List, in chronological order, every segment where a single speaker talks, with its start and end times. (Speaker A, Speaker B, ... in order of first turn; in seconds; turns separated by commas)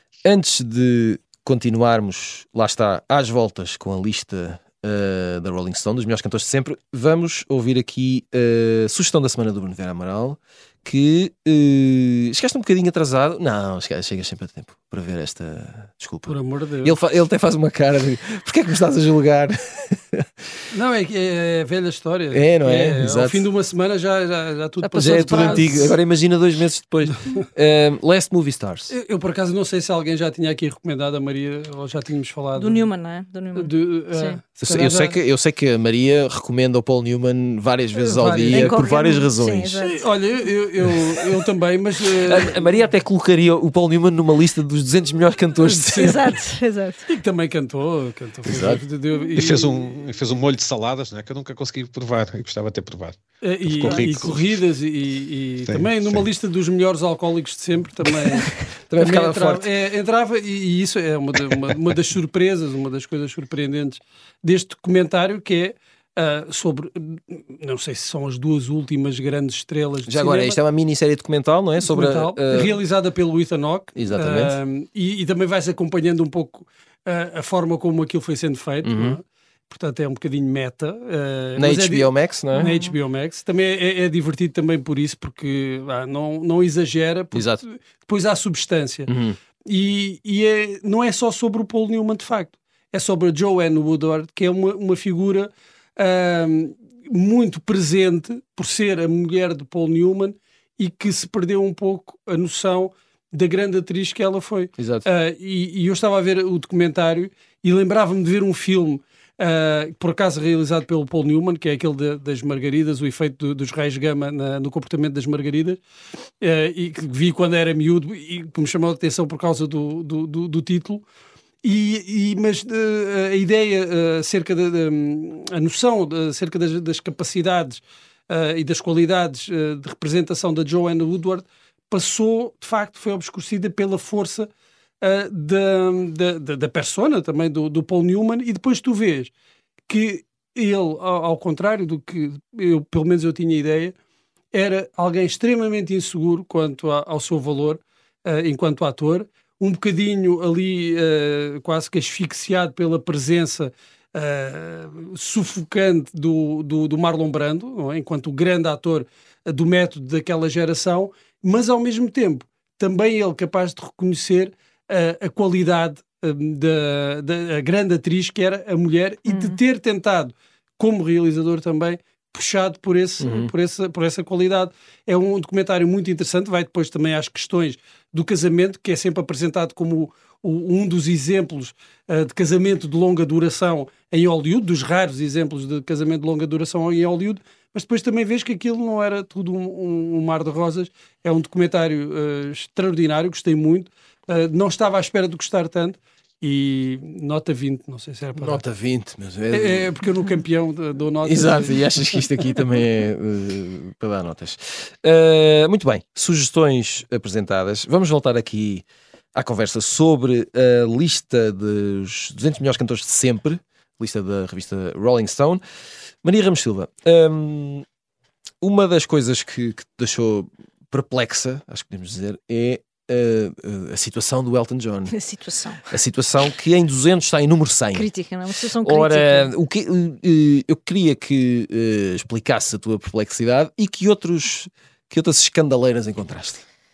Speaker A: 0.2-20.5, Speaker B: 16.3-16.9, Speaker B: 20.7-25.9, Speaker A: 22.3-23.4, Speaker C: 24.8-25.9, Speaker A: 24.9-28.9, Speaker B: 28.9-32.8, Speaker C: 32.5-34.4, Speaker B: 33.5-35.2, Speaker A: 34.6-39.8, Speaker B: 38.0-38.9, Speaker C: 38.5-40.0, Speaker B: 39.8-42.7, Speaker A: 42.2-46.3, Speaker B: 45.6-46.3, Speaker C: 45.9-47.1, Speaker B: 47.1-50.0, Speaker A: 48.5-48.8, Speaker D: 49.3-54.6, Speaker B: 53.4-70.6, Speaker D: 55.6-56.3, Speaker A: 58.9-59.7, Speaker A: 70.1-72.8, Speaker B: 71.8-89.1, Speaker A: 74.0-74.6, Speaker A: 78.8-79.2, Speaker A: 81.6-82.7, Speaker C: 82.5-82.9, Speaker A: 87.3-87.6, Speaker A: 89.1-89.4, Speaker B: 89.7-115.8, Speaker A: 104.8-105.0, Speaker B: 116.4-121.0, Speaker B: 121.6-134.5, Speaker B: 135.0-139.3, Speaker B: 139.9-143.9, Speaker B: 144.5-198.6, Speaker C: 169.3-169.6, Speaker A: 173.2-173.5, Speaker A: 198.3-199.9, Speaker B: 199.5-202.2, Speaker A: 201.2-215.6, Speaker A: 216.2-217.8, Speaker A: 218.6-225.1, Speaker C: 225.1-225.9, Speaker A: 225.9-228.1, Speaker C: 227.9-229.5, Speaker A: 228.8-236.6